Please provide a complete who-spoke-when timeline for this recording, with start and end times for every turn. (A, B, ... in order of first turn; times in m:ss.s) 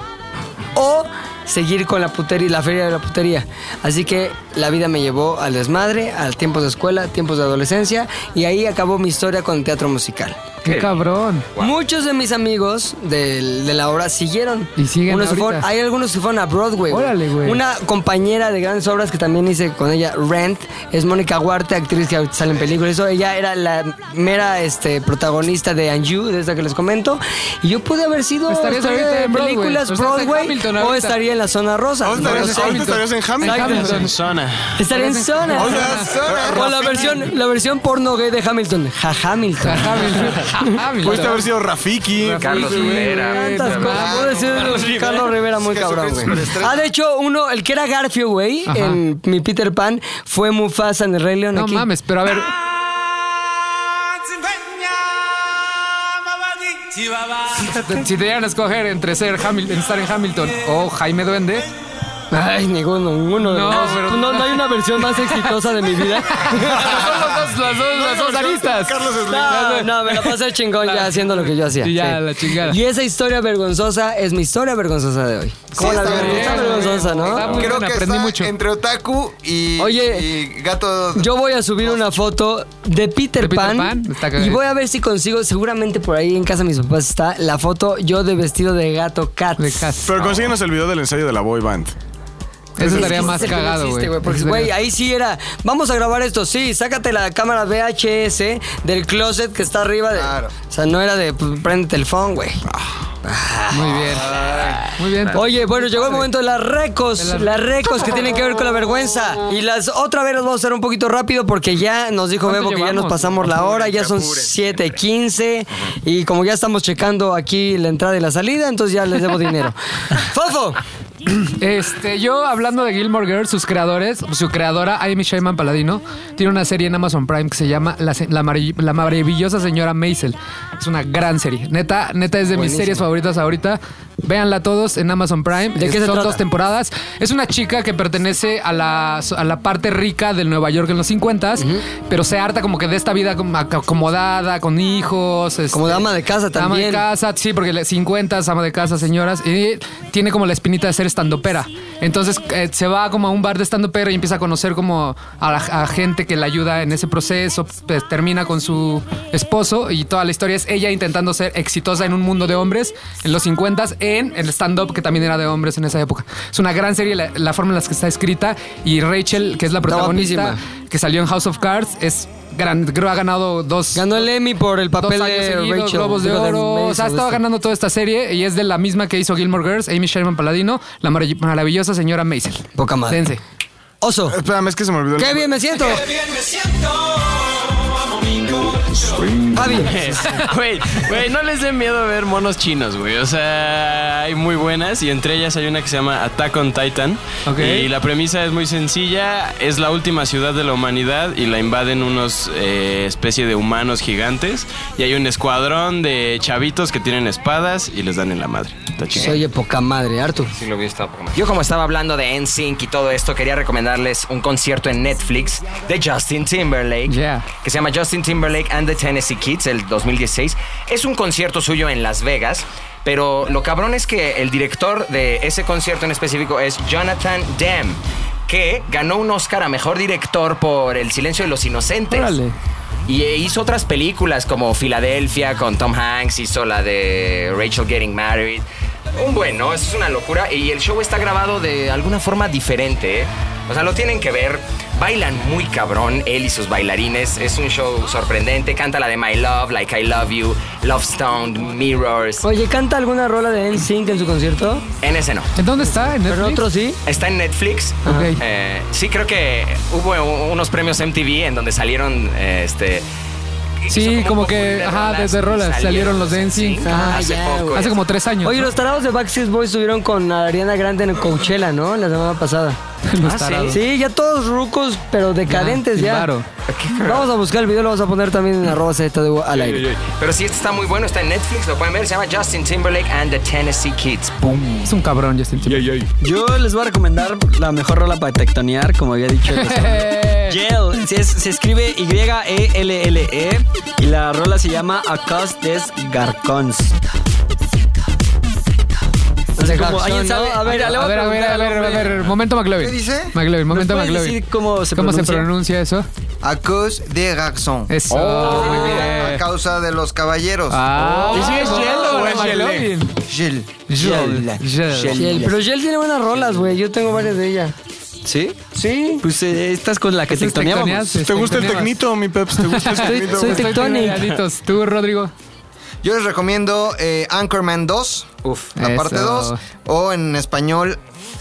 0:00.7-0:10.4 A
0:10.6-0:11.5 B
0:10.6-0:11.0 C
0:11.6-0:34.0 A
0:14.8-0:15.7 B
0:16.9-0:17.6 B
0:28.5-0:31.2 B
0:32.0-0:34.1 D
0:32.2-0:34.1 B
0:34.0-0:34.7 E
0:34.8-0:40.7 A
0:34.9-0:36.1 B
0:35.6-0:37.1 F
0:35.6-0:37.1 D
0:39.6-0:41.4 B
0:41.0-0:43.1 D
0:42.2-0:44.4 B
0:42.4-0:44.3 C
0:42.8-0:51.9 A
0:43.9-0:45.0 F
0:45.6-0:46.8 F
0:48.7-0:49.0 B
0:51.5-0:52.5 B
0:57.5-1:01.7 B
1:02.3-1:07.1 A
1:03.4-1:12.8 B
1:08.0-1:09.2 F
1:09.2-1:17.6 A
1:15.7-1:21.9 F
1:15.8-1:18.5 B
1:19.8-1:20.3 A
1:21.2-1:29.9 A
1:23.4-1:24.6 B
1:29.6-1:30.1 B
1:30.0-1:31.9 D
1:32.8-1:34.7 B
1:32.8-1:42.6 A
1:40.1-1:40.5 F
1:43.2-1:44.1 A
1:43.7-1:44.4 B
1:44.3-1:45.3 C
1:45.0-1:46.3 B
1:45.3-2:00.8 A
1:47.2-1:47.6 B
1:52.4-1:53.8 B
1:53.6-1:54.7 C
2:01.6-2:54.3 B
2:12.5-2:13.1 A
2:15.8-2:16.4 A
2:21.6-2:21.8 A
2:25.7-2:27.0 A
2:49.9-2:50.6 A
2:53.9-2:57.4 A
2:55.0-3:03.4 B
3:02.8-3:03.2 A
3:04.0-3:04.4 A
3:04.3-3:05.9 D
3:05.2-3:06.0 A
3:09.5-3:10.0 A
3:09.8-3:29.3 E
3:17.4-3:17.9 B
3:29.2-3:30.5 A
3:30.5-3:52.4 C
3:37.1-3:37.4 B
3:52.1-3:52.5 B
3:53.1-3:58.6 C
3:59.2-4:12.4 C
4:12.4-4:14.8 A
4:15.0-4:15.5 C
4:15.6-4:16.7 B
4:16.3-4:17.0 A
4:17.0-4:23.0 C
4:18.0-4:18.4 B
4:23.8-4:28.0 C
4:23.9-4:27.2 B
4:26.8-4:27.8 A
4:27.7-4:28.7 B
4:28.4-4:32.8 A
4:33.1-4:33.8 B
4:33.2-4:33.8 C
4:33.7-4:36.3 A
4:35.5-4:36.4 B
4:36.7-4:37.2 C
4:37.0-4:39.8 A
4:39.7-4:44.9 C
4:44.8-4:45.9 B
4:45.7-4:46.0 E
4:46.2-4:56.9 G
4:49.5-4:50.6 B
4:59.6-5:01.0 G
4:59.6-5:02.2 A
5:00.7-5:04.4 B
5:02.8-5:03.4 F
5:03.7-5:05.5 G
5:04.9-5:06.1 B
5:06.4-5:12.6 F
5:07.9-5:09.4 B
5:08.1-5:08.4 C
5:08.4-5:09.1 A
5:10.7-5:13.2 B
5:11.0-5:12.0 G
5:11.3-5:12.9 D
5:13.2-5:14.7 F
5:13.9-5:15.3 B
5:15.0-5:15.5 C
5:15.1-5:15.4 G
5:15.1-5:17.7 A
5:18.2-5:18.6 G
5:18.7-5:19.2 A
5:19.2-5:21.2 G
5:20.3-5:22.0 B
5:21.2-5:24.0 D
5:22.6-5:25.3 B
5:23.0-5:24.3 A
5:26.0-5:31.0 F
5:28.4-5:28.7 C
5:28.8-5:29.6 B